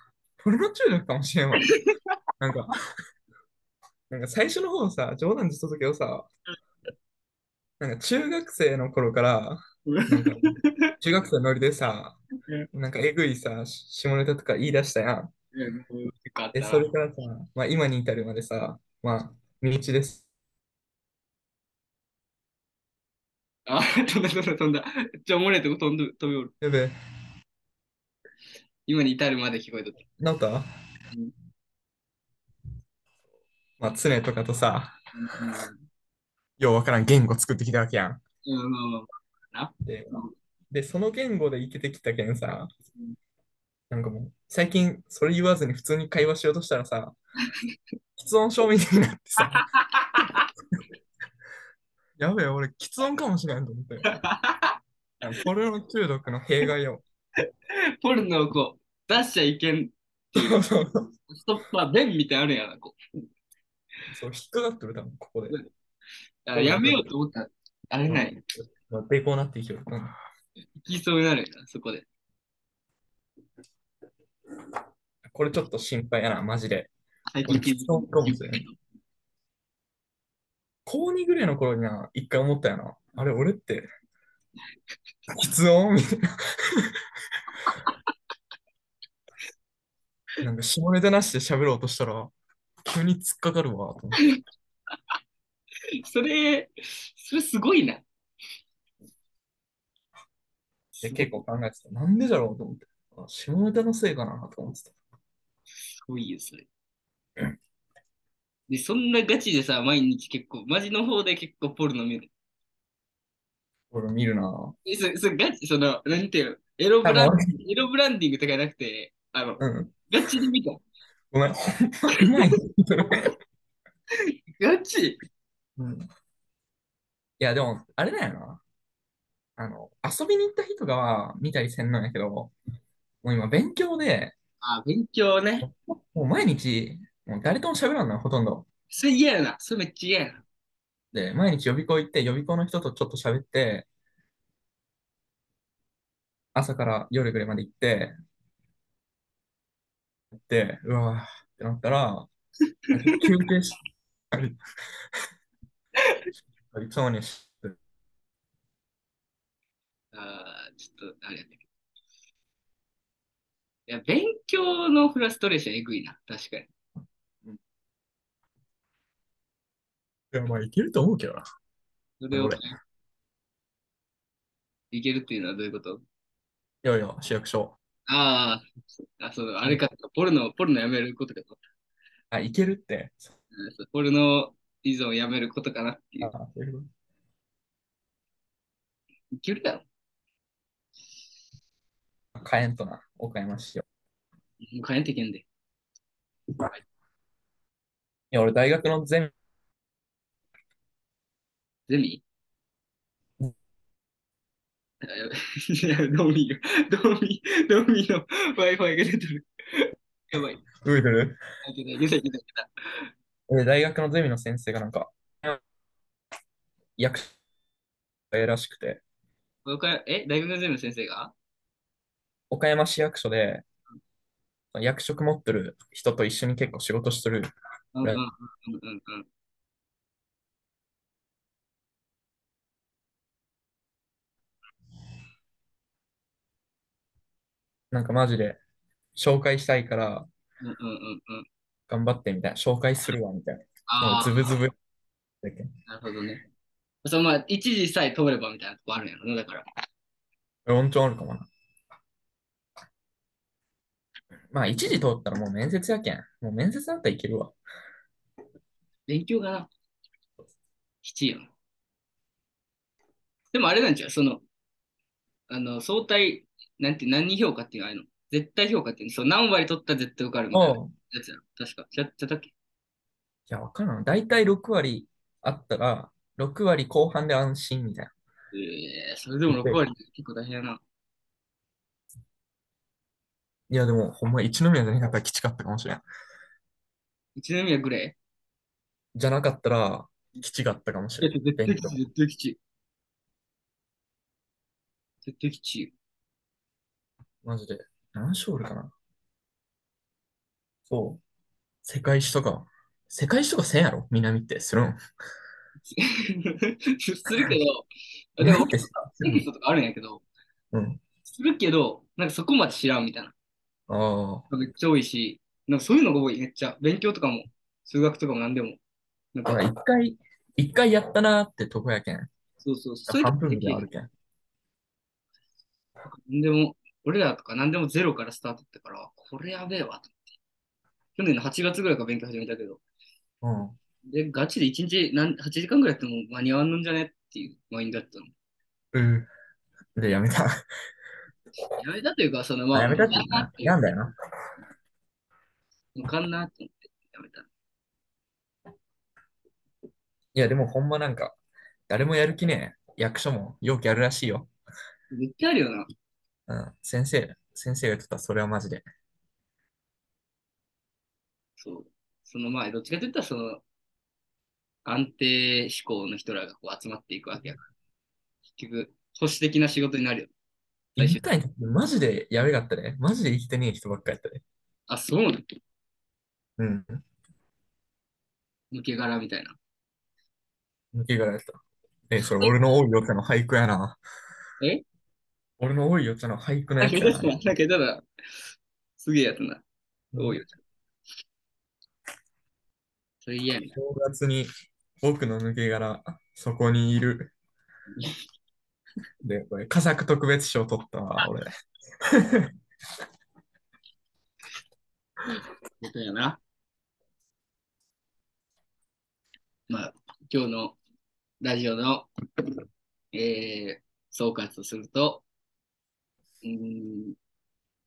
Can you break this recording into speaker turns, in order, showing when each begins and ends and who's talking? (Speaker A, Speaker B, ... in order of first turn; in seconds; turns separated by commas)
Speaker A: 0.4-1.7, Speaker A: 2.4-2.7, Speaker A: 4.1-6.3, Speaker A: 7.8-12.2, Speaker B: 9.8-10.9, Speaker A: 12.7-15.3, Speaker B: 15.5-16.9, Speaker A: 16.5-20.2, Speaker B: 23.7-26.5, Speaker A: 26.6-26.9, Speaker B: 28.9-30.0, Speaker A: 30.2-30.7, Speaker A: 33.8-35.0, Speaker B: 35.1-35.9, Speaker A: 36.6-38.2, Speaker B: 38.4-40.3, Speaker A: 39.8-42.7, Speaker A: 43.9-47.1, Speaker A: 48.2-49.6, Speaker B: 49.5-50.5, Speaker A: 52.2-54.1, Speaker B: 54.1-54.7, Speaker A: 55.2-57.0, Speaker B: 58.0-60.6, Speaker A: 60.4-61.1, Speaker B: 61.3-63.0, Speaker A: 64.1-65.6, Speaker B: 66.4-68.4, Speaker A: 66.5-67.1, Speaker A: 68.1-70.1, Speaker B: 70.8-72.0, Speaker A: 75.2-76.9, Speaker B: 77.3-78.7, Speaker A: 77.4-78.6, Speaker A: 80.8-83.9, Speaker A: 85.3-86.9, Speaker A: 90.4-92.3, Speaker A: 92.8-94.3, Speaker B: 96.0-98.0, Speaker B: 100.9-101.4, Speaker A: 101.0-104.9, Speaker B: 106.0-106.7, Speaker B: 108.7-112.3, Speaker A: 113.9-114.7, Speaker B: 114.8-120.8, Speaker A: 117.0-117.5, Speaker A: 119.6-119.9, Speaker A: 121.3-123.3, Speaker B: 124.5-125.2, Speaker A: 125.8-126.0, Speaker A: 127.4-128.6, Speaker A: 129.6-132.5, Speaker A: 133.2-134.3, Speaker B: 134.6-135.7, Speaker A: 135.6-138.6, Speaker B: 138.9-140.4, Speaker A: 141.1-143.9, Speaker A: 146.5-148.1, Speaker A: 150.3-152.3, Speaker A: 152.9-153.8, Speaker A: 154.3-154.6, Speaker A: 156.7-157.8, Speaker B: 160.1-161.6, Speaker B: 163.9-166.7, Speaker A: 170.3-171.4, Speaker B: 172.2-172.7, Speaker A: 172.3-172.6, Speaker B: 174.9-176.0, Speaker A: 176.8-177.8, Speaker B: 178.1-178.6, Speaker B: 179.2-181.6, Speaker A: 182.3-183.3, Speaker B: 183.6-186.3, Speaker A: 186.2-186.9, Speaker B: 189.3-189.8, Speaker A: 192.4-193.8, Speaker B: 194.6-195.4, Speaker A: 198.3-199.3, Speaker B: 201.9-202.2, Speaker B: 205.0-210.6, Speaker A: 210.8-211.4, Speaker B: 211.6-212.7, Speaker A: 213.5-215.6, Speaker A: 217.0-217.3, Speaker A: 218.3-219.0, Speaker B: 219.6-221.3, Speaker A: 222.5-223.6, Speaker A: 224.7-227.5, Speaker B: 227.9-229.3, Speaker A: 237.9-238.6, Speaker A: 239.2-240.3, Speaker B: 240.6-241.4, Speaker A: 241.9-244.7, Speaker B: 243.9-244.6, Speaker A: 245.4-245.7, Speaker B: 245.9-246.4, Speaker B: 247.0-249.6, Speaker A: 250.7-251.5, Speaker A: 254.5-257.5, Speaker B: 259.1-259.7, Speaker B: 261.0-261.5, Speaker B: 263.5-264.4, Speaker B: 265.5-272.5, Speaker A: 270.5-270.9, Speaker A: 273.5-278.1, Speaker B: 278.5-280.8, Speaker A: 279.5-279.8, Speaker A: 283.7-286.0, Speaker B: 287.4-288.2, Speaker A: 289.1-292.0, Speaker B: 291.2-292.6, Speaker B: 295.2-295.9, Speaker A: 297.4-298.9, Speaker A: 300.9-301.2, Speaker A: 301.8-305.0, Speaker B: 305.9-310.2, Speaker A: 308.4-309.4, Speaker A: 310.7-311.0, Speaker B: 311.2-313.3, Speaker A: 313.9-314.5, Speaker B: 314.5-318.8, Speaker B: 319.3-319.6, Speaker A: 319.4-322.3, Speaker B: 322.6-323.9, Speaker A: 323.1-324.1, Speaker B: 326.1-330.1, Speaker B: 331.1-332.8, Speaker A: 333.4-333.8, Speaker B: 334.1-338.3, Speaker A: 338.9-339.3, Speaker A: 339.9-340.5, Speaker B: 341.8-343.8, Speaker A: 342.7-344.1, Speaker B: 345.9-347.5, Speaker A: 350.3-351.4, Speaker A: 351.9-354.5, Speaker B: 355.1-355.8, Speaker A: 356.5-358.8, Speaker B: 361.6-363.6, Speaker B: 364.8-367.6, Speaker B: 368.6-370.3, Speaker B: 370.9-371.2, Speaker A: 371.0-374.4, Speaker B: 374.9-375.4, Speaker A: 376.6-377.0, Speaker B: 378.7-379.6, Speaker A: 380.9-384.0, Speaker B: 382.2-382.5, Speaker A: 385.6-387.3, Speaker B: 386.8-388.0, Speaker B: 389.0-389.6, Speaker B: 390.1-390.6, Speaker B: 393.2-393.7, Speaker A: 393.7-394.5, Speaker A: 395.0-397.3, Speaker A: 399.2-401.5, Speaker A: 402.1-402.5, Speaker B: 405.8-406.4, Speaker B: 409.7-410.8, Speaker B: 411.4-412.1, Speaker B: 413.1-415.2, Speaker B: 416.4-417.1